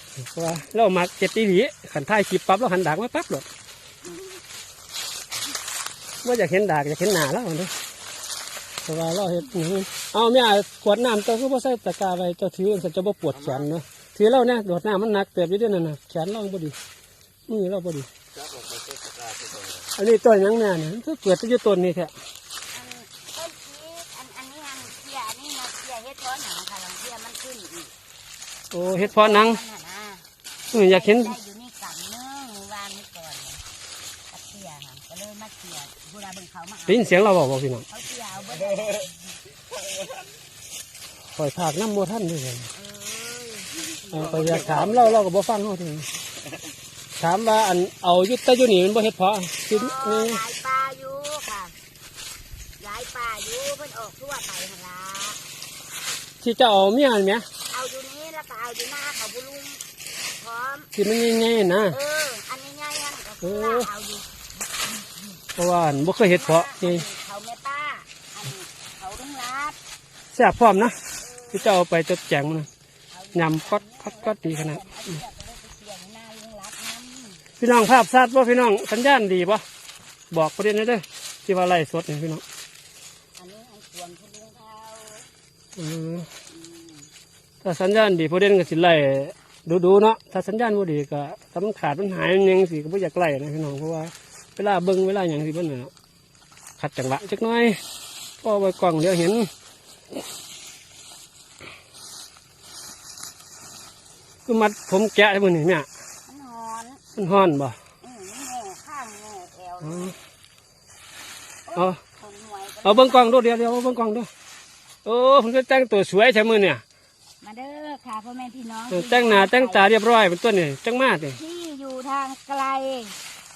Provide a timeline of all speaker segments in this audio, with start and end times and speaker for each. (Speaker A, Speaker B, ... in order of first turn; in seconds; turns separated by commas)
Speaker A: 0.2-3.5, Speaker B: 4.0-4.3, Speaker A: 6.2-7.7, Speaker A: 8.8-16.8, Speaker C: 13.3-13.7, Speaker A: 17.5-18.1, Speaker C: 18.3-19.9, Speaker A: 19.9-22.1, Speaker B: 22.7-27.9, Speaker A: 28.7-29.6, Speaker B: 29.0-33.6, Speaker A: 30.7-31.3, Speaker B: 34.3-37.1, Speaker A: 36.9-37.8, Speaker B: 37.9-39.1, Speaker C: 38.6-39.1, Speaker C: 39.7-40.3, Speaker A: 41.3-42.7, Speaker B: 42.7-45.0, Speaker A: 44.1-46.1, Speaker C: 44.1-45.2, Speaker A: 47.2-50.4, Speaker B: 49.7-51.7, Speaker B: 52.8-55.4, Speaker A: 56.4-57.5, Speaker B: 57.7-59.8, Speaker B: 60.3-60.9, Speaker A: 60.9-62.0, Speaker B: 61.9-65.4, Speaker A: 63.4-63.9, Speaker A: 65.5-67.0, Speaker B: 66.2-69.8, Speaker A: 70.3-71.0, Speaker B: 71.2-71.8, Speaker A: 71.5-72.7, Speaker B: 73.1-77.4, Speaker A: 73.3-74.8, Speaker A: 77.6-79.6, Speaker A: 80.3-82.4, Speaker B: 83.4-85.3, Speaker A: 85.8-86.3, Speaker B: 86.5-87.1, Speaker A: 87.6-95.9, Speaker A: 96.8-97.8, Speaker A: 98.4-99.5, Speaker A: 104.5-105.9, Speaker B: 106.2-107.2, Speaker A: 107.2-107.8, Speaker B: 108.0-110.2, Speaker A: 109.8-110.1, Speaker B: 111.7-113.3, Speaker A: 112.8-114.3, Speaker A: 115.0-116.8, Speaker B: 117.4-119.8, Speaker A: 118.9-121.4, Speaker B: 121.3-123.2